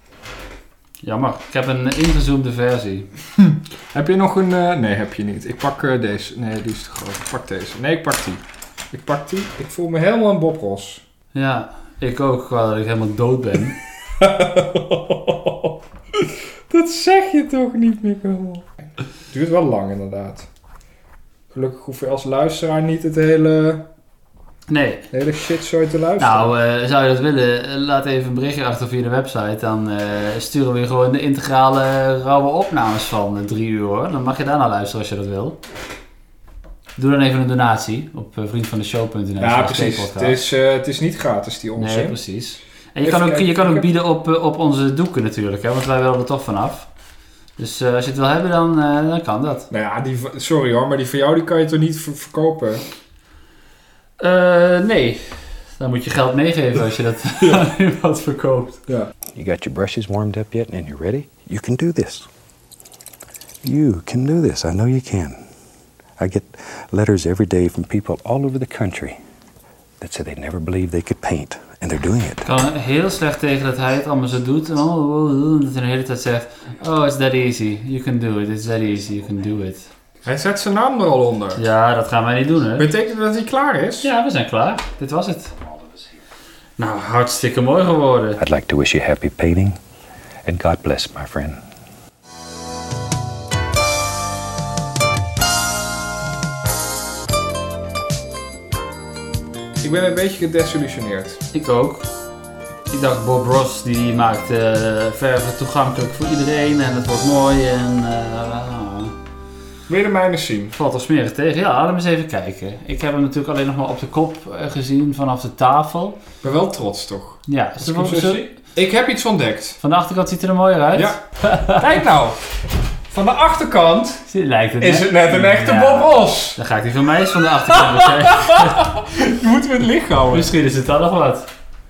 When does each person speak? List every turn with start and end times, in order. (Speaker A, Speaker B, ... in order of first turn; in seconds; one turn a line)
Speaker A: 1.0-3.1
Speaker B: 3.4-11.0
Speaker A: 11.3-13.8
Speaker B: 14.2-18.6
Speaker B: 19.3-20.5
Speaker B: 21.5-23.9
Speaker A: 24.7-25.1
Speaker B: 25.1-26.5
Speaker A: 26.2-35.6
Speaker A: 37.0-40.4
Speaker B: 39.4-42.2
Speaker A: 41.8-46.9
Speaker B: 43.0-43.9
Speaker A: 47.6-49.6
Speaker B: 49.7-52.8
Speaker A: 54.2-58.8
Speaker C: 59.3-62.3
Speaker C: 63.6-65.4
Speaker C: 66.2-69.2
Speaker C: 70.0-72.4
Speaker A: 72.4-79.9
Speaker B: 80.2-81.6
Speaker A: 81.6-82.9
Speaker B: 82.8-84.1
Speaker A: 84.0-85.5
Speaker A: 86.8-88.4
Speaker C: 88.4-89.8
Speaker C: 90.4-91.6
Speaker B: 99.8-101.4
Speaker A: 101.5-102.1
Speaker A: 102.9-109.1
Speaker B: 109.9-110.7
Speaker A: 110.8-116.2
Speaker B: 116.4-119.8
Speaker A: 117.5-118.5
Speaker A: 119.8-121.8
Speaker B: 121.0-122.4
Speaker B: 123.1-124.2
Speaker A: 124.3-128.8
Speaker B: 124.8-126.6
Speaker B: 127.7-130.5
Speaker A: 130.3-131.5